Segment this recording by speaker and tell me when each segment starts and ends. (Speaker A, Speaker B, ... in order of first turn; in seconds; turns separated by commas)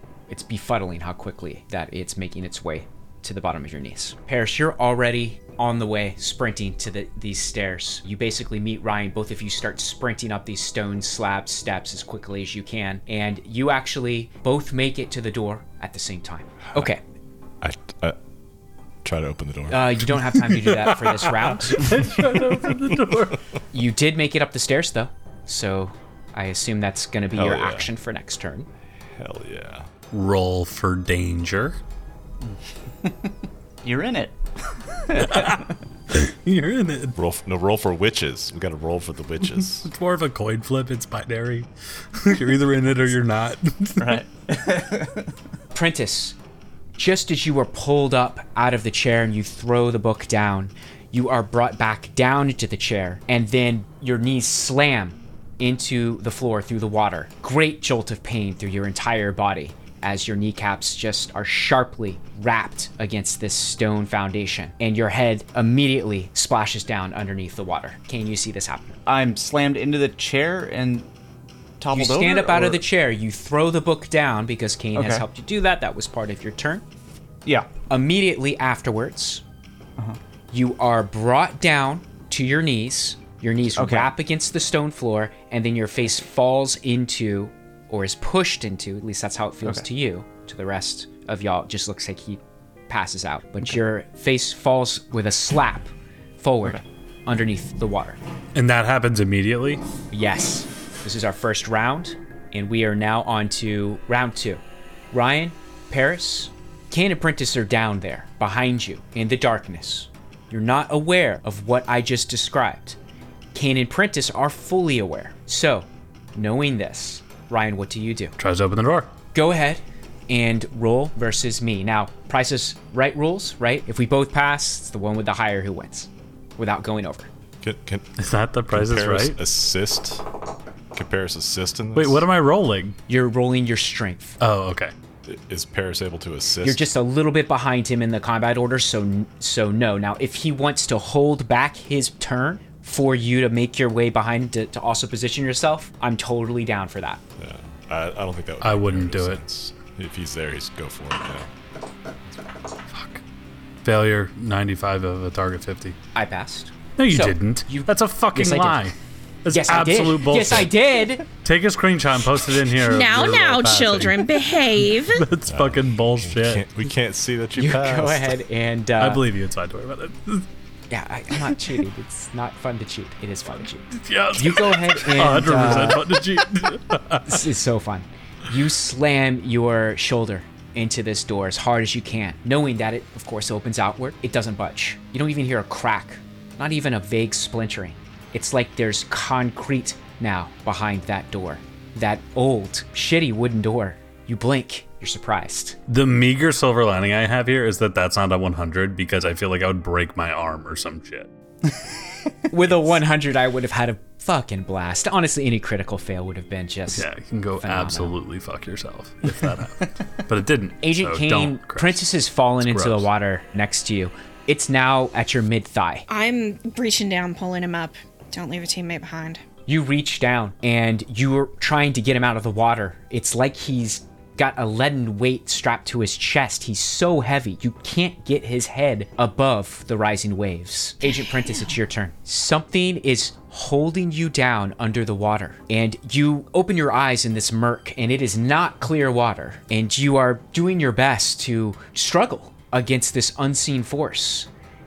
Speaker A: 0.3-17.0, Speaker B: 17.6-18.2, Speaker B: 19.0-20.4, Speaker A: 19.7-21.9, Speaker C: 21.4-23.4, Speaker A: 23.7-28.7, Speaker B: 27.3-27.9, Speaker B: 29.1-29.9, Speaker C: 30.1-31.8, Speaker D: 33.0-33.3, Speaker D: 33.8-34.4, Speaker D: 34.9-35.7, Speaker C: 35.1-37.2, Speaker B: 37.1-39.9, Speaker C: 39.4-44.2, Speaker D: 44.0-45.3, Speaker A: 45.7-46.4, Speaker A: 47.0-69.0, Speaker D: 69.0-71.1, Speaker D: 71.8-72.8, Speaker A: 71.9-76.8, Speaker D: 74.9-75.2, Speaker D: 77.5-77.7, Speaker A: 77.9-79.4, Speaker A: 80.5-98.2, Speaker D: 83.8-84.1, Speaker C: 98.5-99.8, Speaker A: 100.1-113.0, Speaker A: 113.5-118.3, Speaker C: 118.4-119.1, Speaker A: 119.3-127.3, Speaker B: 127.6-128.1, Speaker C: 128.2-129.4, Speaker B: 128.7-130.2, Speaker B: 130.9-132.2, Speaker C: 131.9-132.9, Speaker A: 133.1-134.4, Speaker C: 134.4-134.9, Speaker B: 135.2-136.9, Speaker A: 136.6-147.2, Speaker B: 147.4-151.5, Speaker C: 148.6-149.6, Speaker C: 152.9-153.2, Speaker C: 153.8-155.9, Speaker A: 156.1-158.9, Speaker C: 157.0-160.8, Speaker A: 159.5-161.2, Speaker C: 161.4-166.7, Speaker E: 162.8-165.2, Speaker B: 165.4-168.4, Speaker A: 167.6-169.2, Speaker C: 169.0-170.4, Speaker A: 170.9-176.0, Speaker C: 173.9-177.4, Speaker A: 177.2-195.8, Speaker C: 195.9-201.3, Speaker A: 202.5-207.1, Speaker C: 206.9-213.1, Speaker A: 207.6-208.1, Speaker A: 210.8-216.1, Speaker E: 216.1-219.4, Speaker A: 219.7-244.5, Speaker E: 231.0-231.7